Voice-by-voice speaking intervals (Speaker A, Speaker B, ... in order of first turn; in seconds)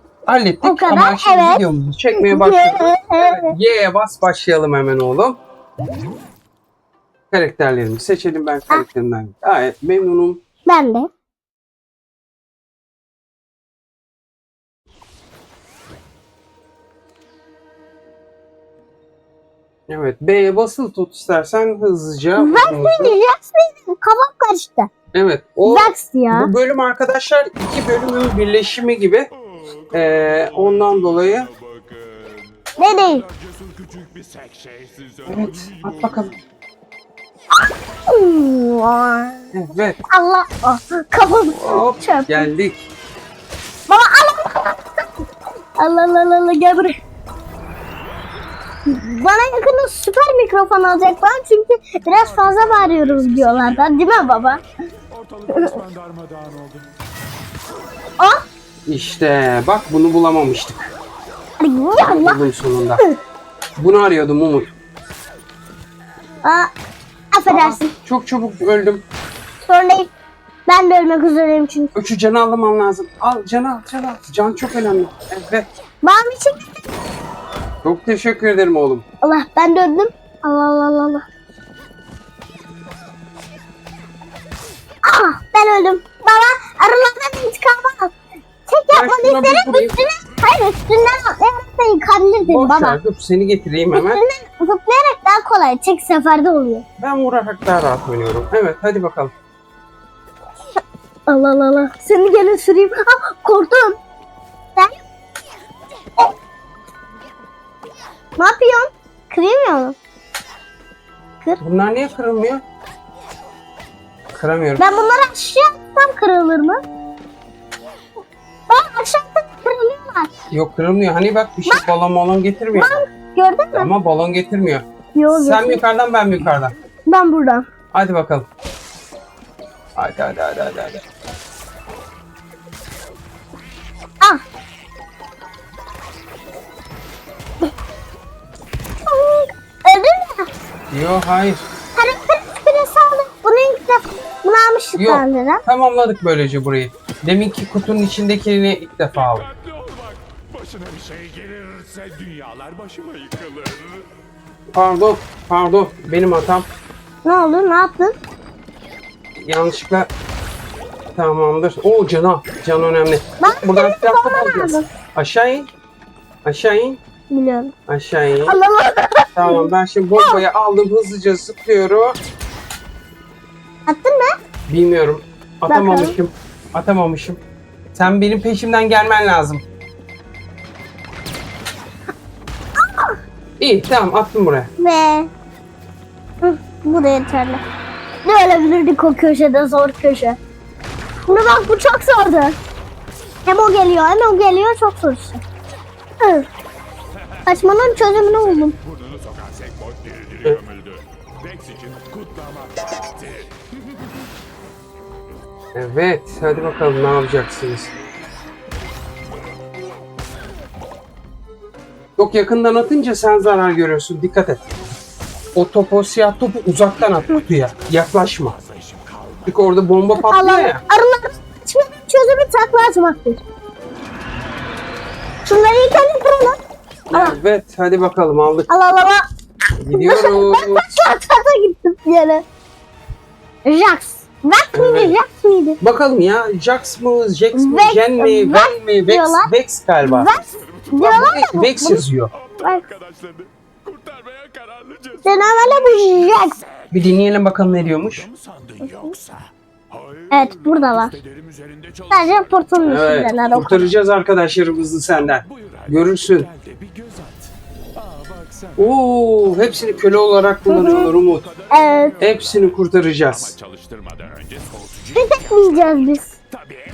Speaker A: 0.3-5.4, 7.3-10.4, 19.9-23.2, 25.1-29.3, 29.9-31.5, 35.3-36.3, 39.5-40.0, 41.5-42.9, 58.9-60.9, 62.1-63.0, 63.8-64.7, 67.5-69.0, 72.0-75.7, 77.8-79.0, 88.9-90.0, 92.5-94.2, 97.0-99.3, 111.6-112.6, 114.3-114.8, 120.5-123.0, 123.7-126.8, 127.9-128.5, 130.0-131.0, 140.9-141.7, 145.0-149.5, 154.8-156.7, 159.4-160.1, 161.2-165.7, 166.4-167.0, 167.9-168.6, 169.3-172.2, 174.7-177.4, 177.9-179.6, 183.6-184.7, 205.8-207.9, 212.2-214.7, 215.6-218.6, 219.5-220.8, 227.1-228.7, 229.8-230.9, 234.7-235.2, 235.8-240.3, 241.0-242.3, 246.9-248.3, 252.8-256.5, 258.8-261.5, 262.2-263.6
Speaker B: 0.6-3.5, 10.7-11.1, 22.4-24.9, 25.6-26.5, 32.8-33.3, 38.1-39.5, 40.1-42.5, 43.9-44.9, 45.8-47.0, 48.9-54.6, 55.5-55.8, 61.6-62.4, 66.4-66.7, 67.3-67.9, 69.7-70.1, 70.7-71.9, 76.0-76.6, 79.2-81.2, 85.0-88.2, 88.7-93.0, 93.9-96.8, 101.3-104.0, 108.4-110.0, 114.8-116.8, 118.7-120.3, 122.7-123.9, 125.2-125.8, 127.1-127.7, 139.1-140.5, 142.0-145.6, 157.2-158.2, 163.4-164.9, 167.3-167.7, 168.5-170.4, 173.9-174.3, 175.7-176.1, 182.8-183.2, 184.8-185.3, 186.4-187.6, 188.2-190.4, 191.3-192.6, 193.5-195.4, 196.2-196.5, 197.4-198.8, 220.2-223.4, 225.4-226.6, 228.7-229.2, 229.9-232.4, 233.7-235.8, 237.5-239.5, 240.0-242.0, 242.6-242.9, 245.2-246.6, 248.9-249.1, 250.3-251.2, 252.1-253.9, 260.7-261.1, 261.7-262.1, 265.1-266.4
Speaker C: 56.0-56.8, 150.7-153.3, 248.4-248.8, 256.7-257.3